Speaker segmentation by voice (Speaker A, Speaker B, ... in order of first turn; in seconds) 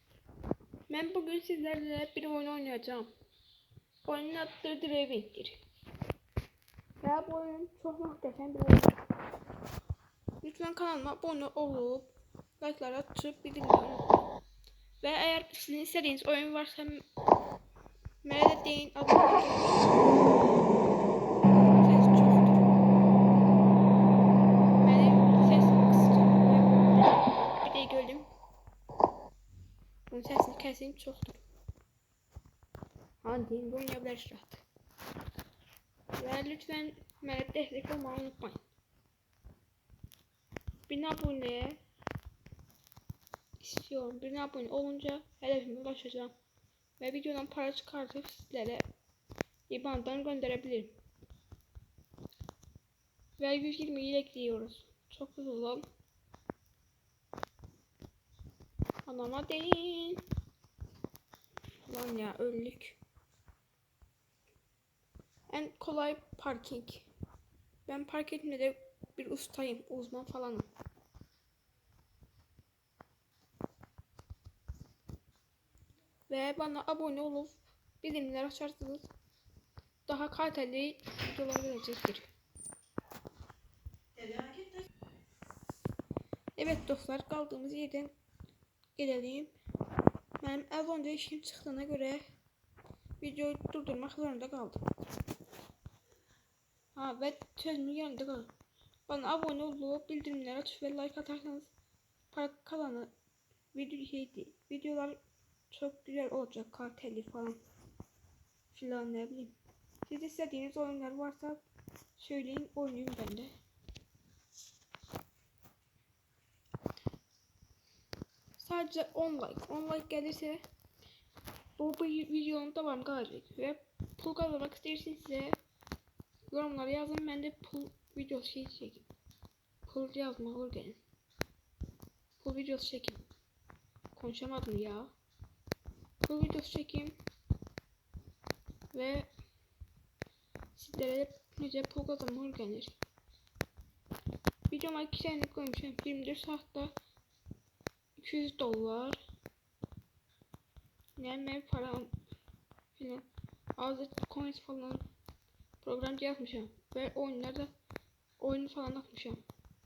Speaker A: 0.9-3.1, 4.0-5.6, 7.0-9.0, 10.4-14.2, 15.0-17.0, 18.2-20.0, 21.7-22.7, 24.8-28.3, 30.1-31.4, 33.2-34.6, 36.2-38.6, 40.9-41.8, 43.6-46.3, 47.0-48.9, 49.7-50.9, 53.4-55.9, 59.0-60.2, 61.9-63.0, 65.5-67.1, 67.8-70.7, 76.3-79.1, 80.0-82.3, 84.2-84.8, 86.6-88.1, 89.0-89.5, 90.4-92.2, 93.2-94.8, 96.9-98.5, 99.1-101.7, 102.3-103.1, 103.7-105.2, 105.7-107.6, 108.7-109.5, 110.0-111.6, 112.2-113.5, 118.6-120.6, 121.8-125.6, 126.5-129.1, 129.8-131.0, 132.4-133.2, 134.1-135.1, 136.2-137.2, 138.9-139.3, 140.8-143.0, 144.7-146.9, 148.2-149.2, 151.2-152.1, 152.9-153.2, 153.8-155.0, 155.8-157.7, 158.4-159.4